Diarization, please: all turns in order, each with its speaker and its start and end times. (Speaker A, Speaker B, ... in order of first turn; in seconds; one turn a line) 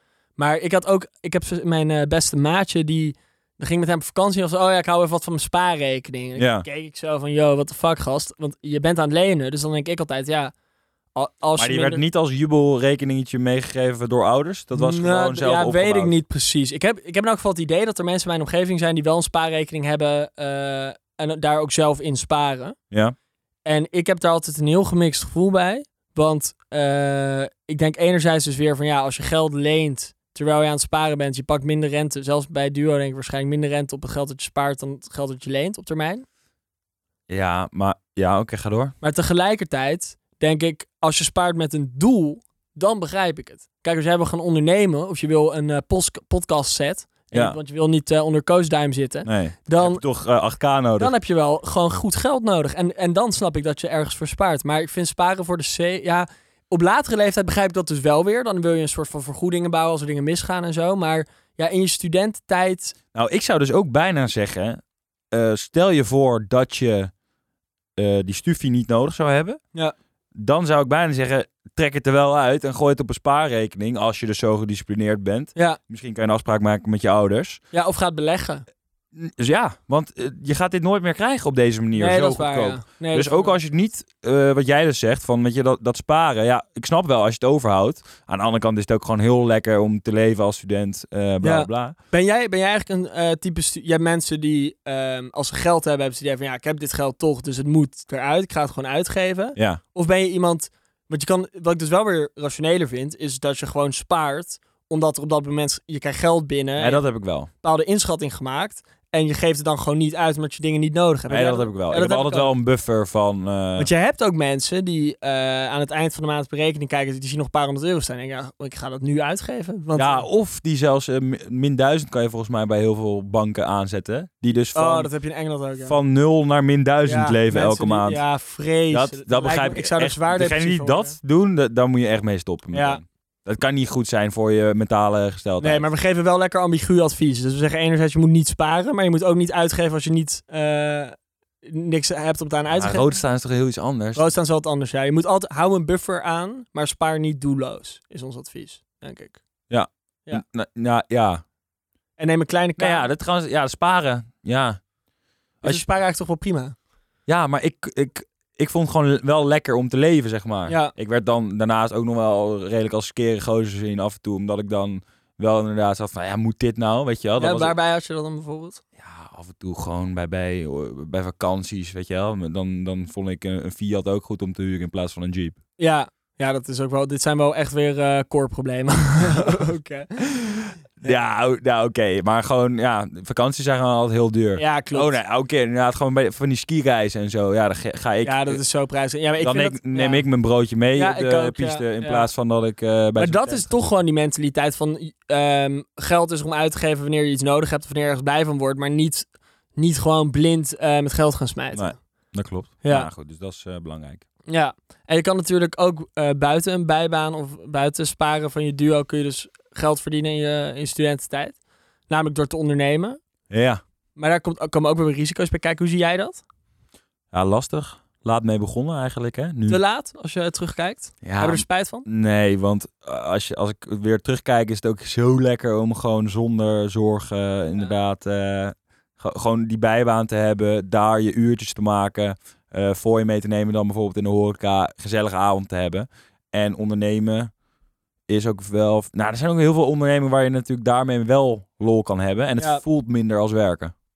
Speaker A: 0.4-10.5
Speaker B: 6.3-6.7
Speaker A: 11.1-12.0
Speaker B: 11.6-16.1
Speaker A: 14.7-22.8
Speaker A: 23.6-36.2
Speaker B: 37.3-38.9
Speaker A: 39.0-50.0
Speaker B: 47.3-47.6
Speaker B: 49.2-51.1
Speaker A: 51.0-62.9
Speaker B: 63.1-64.8
Speaker B: 65.3-67.1
Speaker B: 68.0-69.6
Speaker B: 70.3-77.6
Speaker A: 77.7-78.6
Speaker B: 79.1-91.9
Speaker A: 81.9-83.5
Speaker A: 91.4-107.0
Speaker B: 99.5-99.8
Speaker B: 106.8-107.5
Speaker A: 107.6-112.5
Speaker B: 111.3-113.9
Speaker A: 113.8-120.2
Speaker B: 119.9-125.1
Speaker A: 124.7-126.0
Speaker B: 125.8-128.2
Speaker A: 127.0-131.2
Speaker B: 128.9-135.9
Speaker A: 132.7-133.0
Speaker A: 135.6-143.1
Speaker B: 142.7-144.3
Speaker A: 144.1-149.4
Speaker B: 149.7-151.4
Speaker A: 152.2-153.1
Speaker B: 152.8-154.8
Speaker A: 155.6-156.8
Speaker B: 157.3-167.7
Speaker A: 160.7-160.9
Speaker A: 167.4-168.8
Speaker B: 169.0-175.6
Speaker A: 175.8-181.2
Speaker B: 179.2-179.6
Speaker B: 181.0-188.6
Speaker A: 184.6-185.2
Speaker A: 188.2-190.2
Speaker B: 189.4-193.7
Speaker A: 191.0-192.3
Speaker A: 193.2-201.9
Speaker B: 201.7-204.2
Speaker A: 202.8-203.1
Speaker A: 204.5-211.6
Speaker A: 212.1-213.2
Speaker B: 213.5-213.8
Speaker A: 214.2-216.4
Speaker B: 217.3-219.8
Speaker A: 219.7-222.1
Speaker B: 221.2-237.5
Speaker B: 238.3-243.9
Speaker A: 242.6-242.8